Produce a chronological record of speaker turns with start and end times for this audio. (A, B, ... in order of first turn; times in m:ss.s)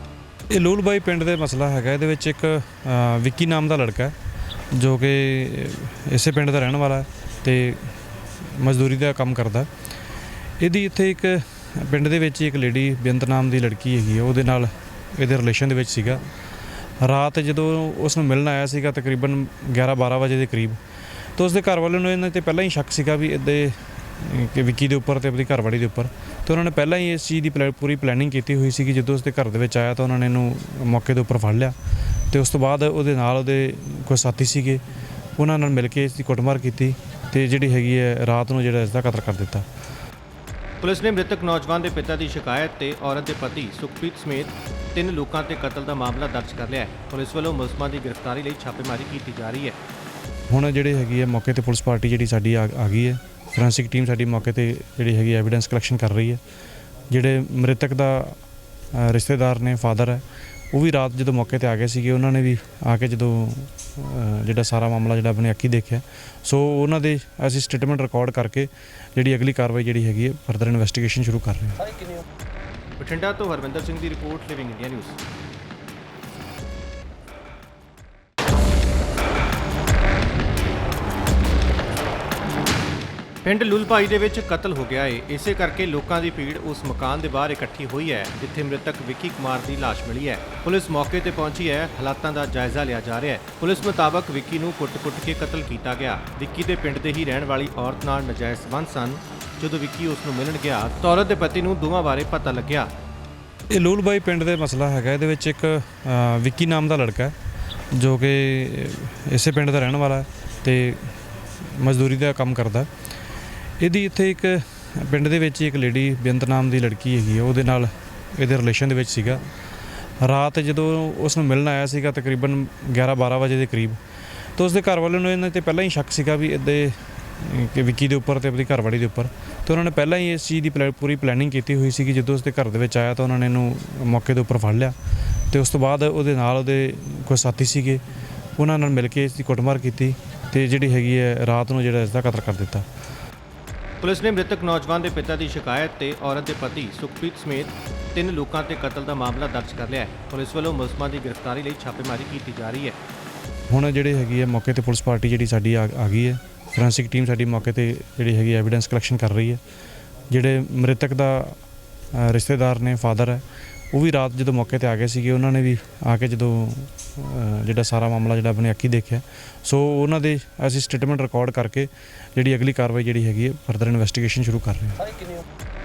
0:00.5-0:04.1 A
0:04.7-0:09.7 A
0:10.6-0:16.2 A
0:17.0-0:20.8 A
0:21.4-0:34.8 A
0:35.4-0:39.6 A
0:40.8-0:49.8 B
0:50.5-0:56.4 A
0:57.1-0:58.4 A
0:58.9-1:11.9 A
1:13.0-1:15.2 B
1:23.4-1:42.9 B
1:43.7-1:47.3 A
1:47.9-1:52.9 A
1:53.8-1:59.4 A
2:00.2-2:04.0 A
2:04.6-2:18.0 A
2:18.6-2:22.8 A
2:24.0-2:33.0 B
2:33.7-2:39.6 A
2:40.3-2:41.6 A
2:42.1-2:55.1 A